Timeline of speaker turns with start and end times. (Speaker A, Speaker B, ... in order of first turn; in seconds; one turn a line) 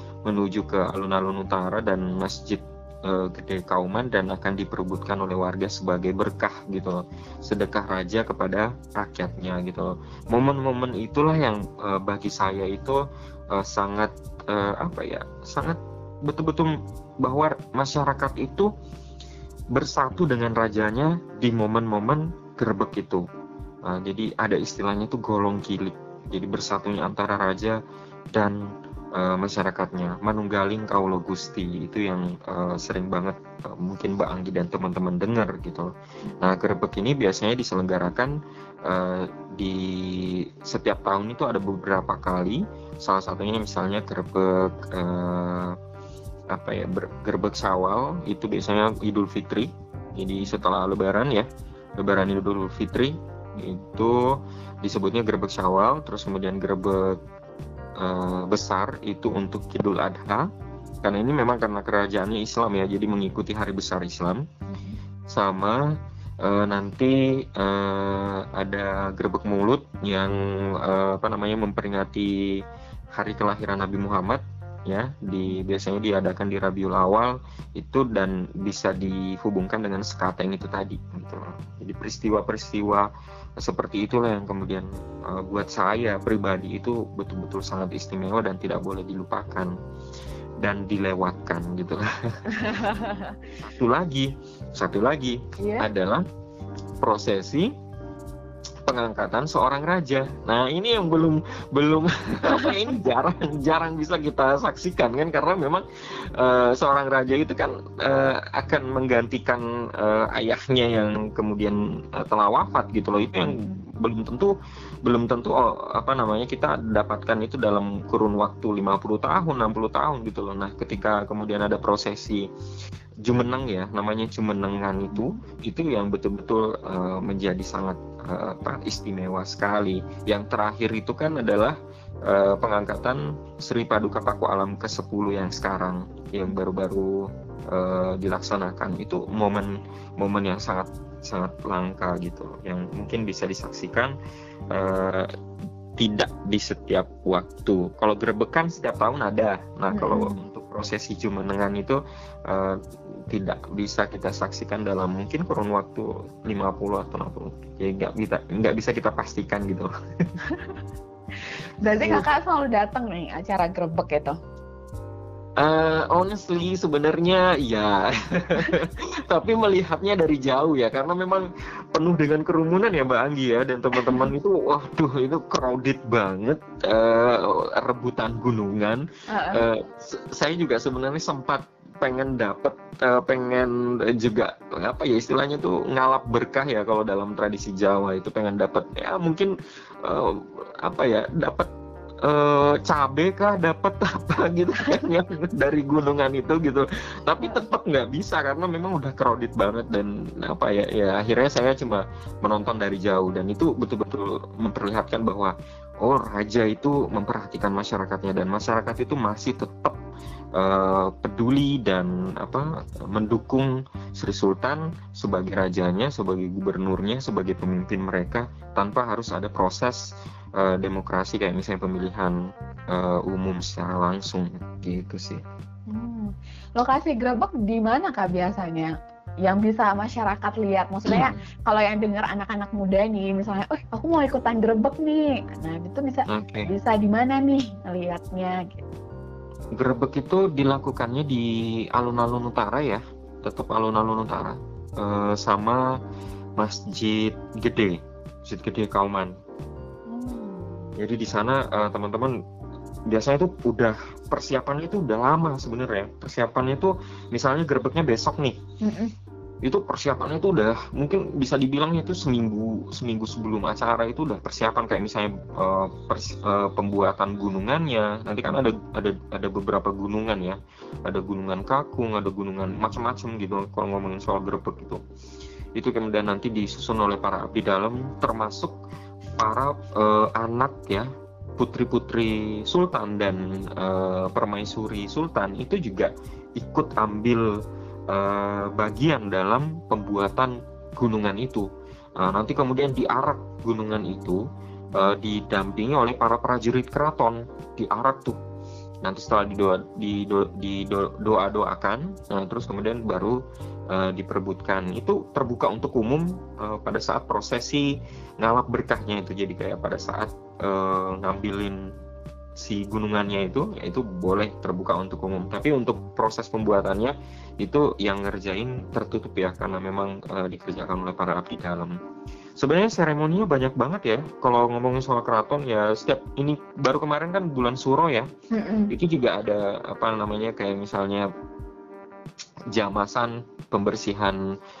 Speaker A: 0.2-18.7
Speaker A: 19.7-23.2
Speaker A: 23.9-27.8
Speaker A: 29.1-45.8
Speaker A: 46.5-51.5
Speaker A: 52.0-57.2
Speaker A: 58.0-60.5
Speaker A: 61.0-64.5
Speaker B: 64.7-65.0
Speaker A: 65.3-72.6
Speaker A: 73.1-89.7
Speaker A: 90.6-92.1
Speaker B: 92.5-93.4
Speaker A: 93.6-96.2
Speaker B: 95.6-95.9
Speaker A: 97.0-97.7
Speaker A: 98.8-122.5
Speaker B: 113.4-113.9
Speaker A: 123.2-144.1
Speaker B: 125.1-125.4
Speaker A: 144.7-145.3
Speaker A: 146.0-159.9
Speaker B: 149.9-150.4
Speaker B: 161.8-164.4
Speaker A: 162.0-162.2
Speaker A: 165.6-189.5
Speaker B: 173.9-174.3
Speaker B: 179.3-179.6
Speaker A: 190.0-191.7
Speaker A: 192.2-210.0
Speaker A: 210.5-222.4
Speaker A: 222.9-225.4
Speaker B: 225.9-238.9
Speaker A: 231.1-231.4
Speaker A: 236.3-236.7
Speaker A: 239.7-245.8
Speaker A: 246.6-249.3
Speaker B: 250.1-250.9
Speaker A: 251.0-252.3
Speaker A: 253.1-258.6
Speaker B: 258.8-259.1
Speaker A: 259.6-275.0
Speaker A: 275.7-278.8
Speaker A: 279.4-287.5
Speaker A: 288.1-291.7
Speaker A: 292.2-294.4
Speaker A: 294.9-298.4
Speaker A: 299.0-303.4
Speaker A: 303.9-311.8
Speaker A: 312.6-321.9
Speaker A: 322.6-328.3
Speaker B: 328.5-328.9
Speaker A: 328.9-331.3
Speaker A: 332.7-334.4